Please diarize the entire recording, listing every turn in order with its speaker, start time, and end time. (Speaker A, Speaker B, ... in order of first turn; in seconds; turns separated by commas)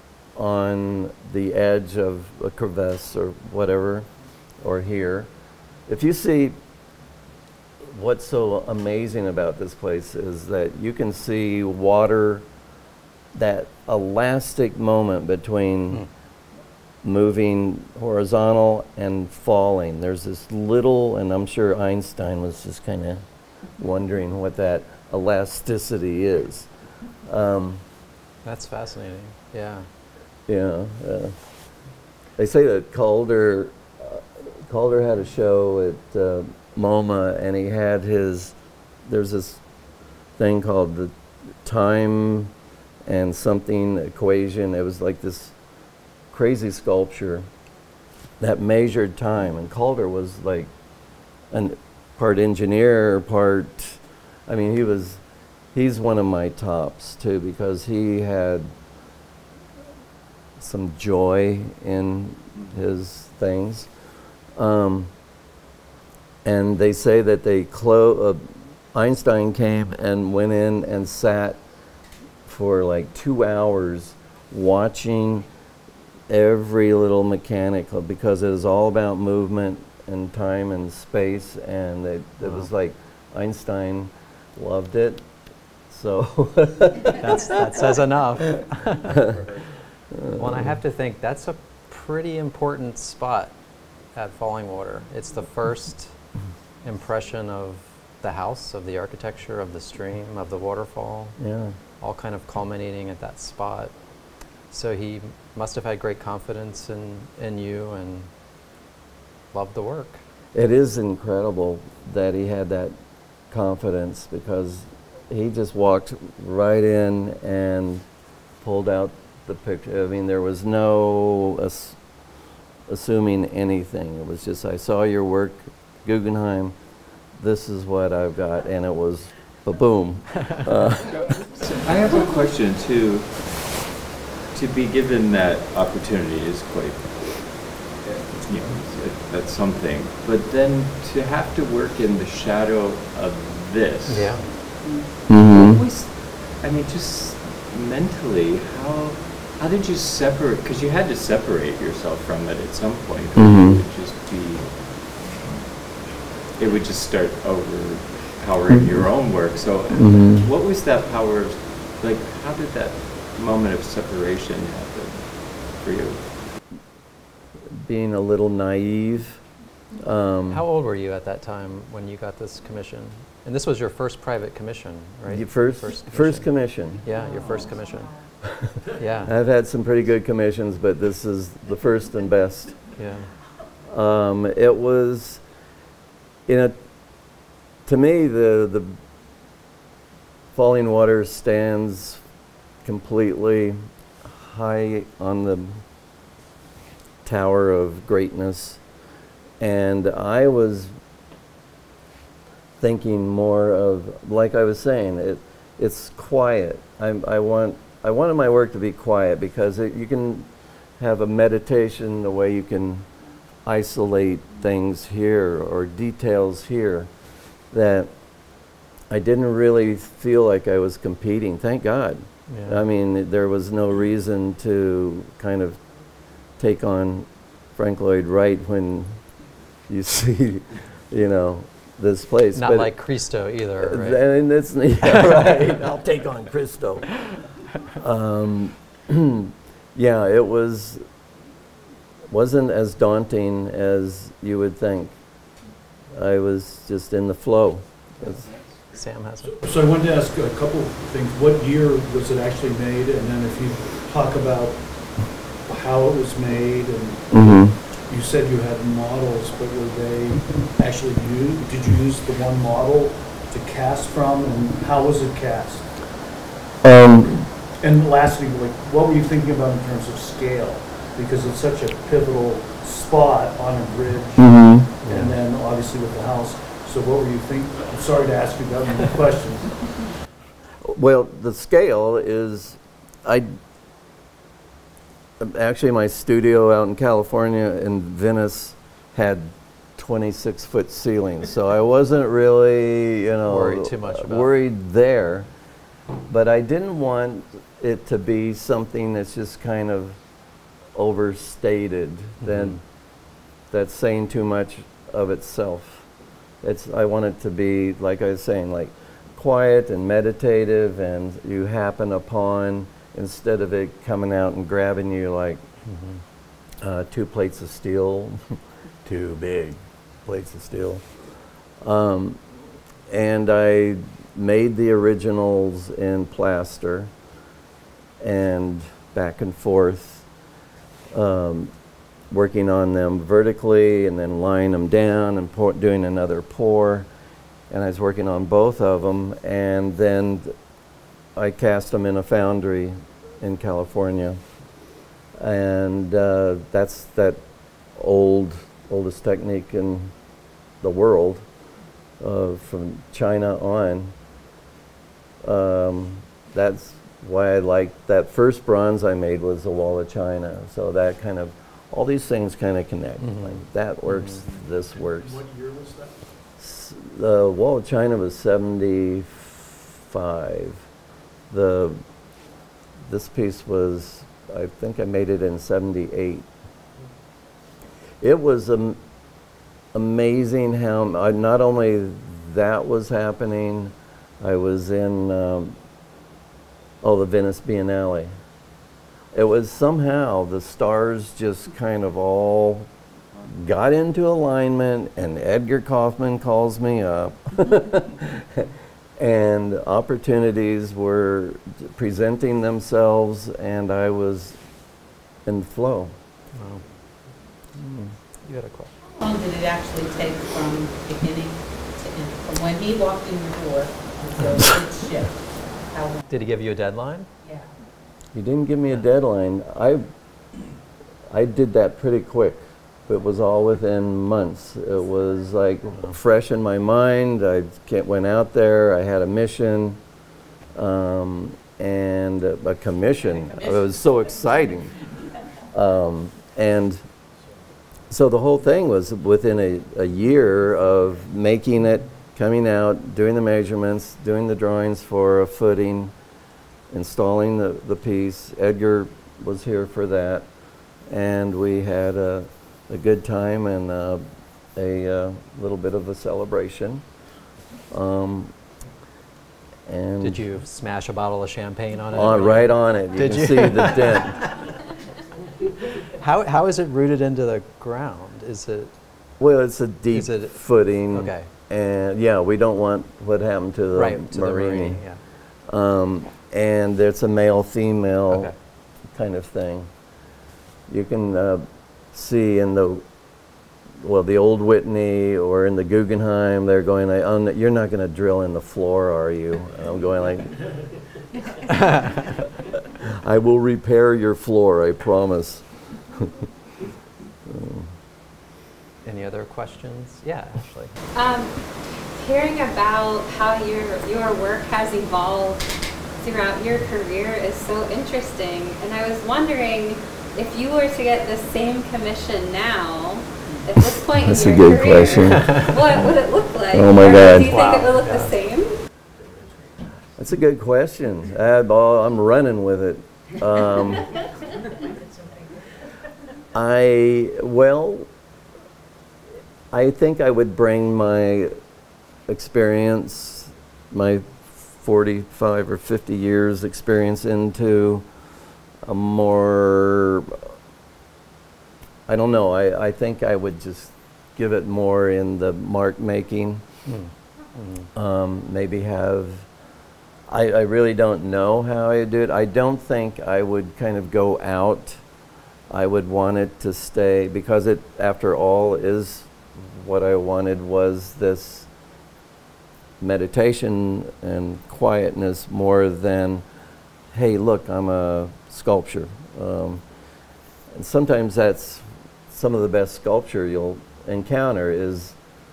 Speaker A: 0.3-4.1, Speaker A: 4.6-5.3, Speaker A: 5.9-6.6, Speaker A: 7.8-12.4, Speaker A: 13.3-16.1, Speaker A: 17.0-23.2, Speaker A: 23.8-26.7, Speaker A: 27.2-27.8, Speaker B: 28.4-29.9, Speaker A: 30.5-31.4, Speaker A: 32.4-39.6, Speaker A: 40.4-42.5, Speaker A: 43.0-45.5, Speaker A: 46.3-47.5, Speaker A: 48.4-50.7, Speaker A: 51.5-55.2, Speaker A: 55.7-58.7, Speaker A: 60.6-63.9, Speaker A: 64.5-65.1, Speaker A: 66.4-71.6, Speaker A: 72.4-75.5, Speaker A: 76.3-85.2, Speaker A: 85.9-87.6, Speaker B: 87.2-89.3, Speaker A: 89.1-89.3, Speaker A: 90.1-90.8, Speaker B: 90.3-93.5, Speaker B: 94.1-96.1, Speaker B: 96.8-101.4, Speaker A: 101.4-101.8, Speaker B: 102.0-103.9, Speaker B: 104.7-108.3, Speaker B: 109.5-110.2, Speaker A: 110.5-112.9, Speaker A: 113.5-118.0, Speaker A: 118.6-122.0, Speaker A: 122.9-126.7, Speaker A: 127.4-131.2, Speaker C: 131.6-133.7, Speaker C: 134.5-137.5, Speaker C: 138.4-155.3, Speaker B: 144.1-144.4, Speaker A: 145.3-145.8, Speaker A: 153.3-153.8, Speaker C: 156.6-166.3, Speaker A: 159.9-160.5, Speaker A: 167.7-169.4, Speaker A: 170.0-170.6, Speaker B: 170.5-176.4, Speaker A: 175.2-177.1, Speaker B: 177.0-178.1, Speaker A: 178.4-182.8, Speaker B: 178.9-179.3, Speaker B: 182.9-183.3, Speaker A: 183.9-185.4, Speaker A: 186.4-186.8, Speaker A: 187.8-189.0, Speaker A: 190.5-192.2, Speaker A: 192.8-195.8, Speaker A: 197.2-198.8, Speaker A: 199.6-200.9, Speaker A: 202.8-213.1, Speaker A: 213.6-217.1, Speaker A: 217.7-218.1, Speaker A: 219.1-225.8, Speaker B: 222.5-222.8, Speaker A: 226.6-229.2, Speaker A: 229.9-232.9, Speaker B: 232.6-234.2, Speaker A: 233.8-237.3, Speaker B: 235.0-235.7, Speaker A: 238.0-241.0, Speaker A: 242.3-245.2, Speaker A: 246.1-248.4, Speaker B: 248.2-249.6, Speaker D: 249.4-265.8, Speaker A: 257.3-257.8, Speaker A: 266.8-267.4, Speaker D: 267.8-279.9, Speaker A: 274.4-274.9, Speaker B: 275.0-275.4, Speaker A: 280.8-283.6, Speaker A: 285.4-295.5, Speaker B: 293.5-294.5, Speaker A: 296.3-300.2, Speaker A: 300.9-302.8, Speaker B: 302.4-302.8, Speaker A: 303.7-306.1, Speaker A: 306.6-315.6, Speaker B: 315.9-316.2, Speaker A: 316.8-321.1, Speaker A: 321.8-322.4, Speaker A: 323.1-327.1, Speaker A: 328.2-330.2, Speaker A: 331.1-331.7, Speaker A: 332.3-337.1, Speaker A: 337.7-340.5, Speaker A: 341.4-344.4, Speaker A: 345.3-347.4, Speaker A: 347.9-350.1, Speaker A: 350.8-351.4, Speaker A: 352.2-354.1, Speaker A: 355.4-365.4, Speaker B: 363.2-364.4, Speaker D: 364.9-366.2, Speaker A: 366.6-370.9, Speaker A: 371.5-372.0, Speaker A: 373.0-376.5, Speaker A: 378.2-379.0, Speaker A: 379.9-385.8, Speaker A: 387.0-388.3, Speaker A: 389.3-392.9, Speaker A: 393.4-404.6, Speaker A: 405.4-406.1, Speaker B: 406.5-406.8, Speaker B: 407.8-408.9, Speaker E: 409.1-416.2, Speaker A: 414.6-414.9, Speaker B: 416.3-417.3, Speaker A: 418.3-420.1, Speaker A: 421.3-430.0, Speaker A: 430.7-435.1, Speaker A: 435.6-437.0, Speaker A: 438.1-446.1, Speaker A: 446.9-450.5, Speaker A: 451.1-454.2, Speaker A: 454.7-457.0, Speaker A: 457.9-458.5, Speaker A: 459.9-460.5, Speaker B: 460.2-464.7, Speaker A: 462.1-464.5, Speaker B: 465.9-468.9, Speaker A: 469.4-475.0, Speaker B: 470.1-471.5, Speaker B: 473.9-475.2, Speaker A: 475.7-478.5, Speaker A: 479.1-479.9, Speaker A: 480.9-483.0, Speaker A: 484.0-490.8, Speaker B: 491.8-492.2, Speaker A: 493.0-496.5, Speaker A: 497.4-497.9, Speaker B: 499.0-500.9, Speaker F: 501.1-501.5, Speaker F: 502.2-505.6, Speaker F: 506.2-518.8, Speaker A: 514.1-515.6, Speaker B: 515.4-515.7, Speaker A: 516.7-517.6, Speaker B: 517.0-518.3, Speaker A: 520.2-524.2, Speaker A: 526.5-528.1, Speaker A: 529.7-531.5, Speaker A: 532.3-538.1, Speaker A: 538.8-540.5, Speaker A: 542.1-546.6, Speaker B: 546.9-547.9, Speaker A: 547.9-549.5, Speaker A: 550.3-555.0, Speaker A: 555.7-561.7, Speaker A: 563.0-566.4, Speaker A: 567.1-569.8, Speaker A: 570.7-575.2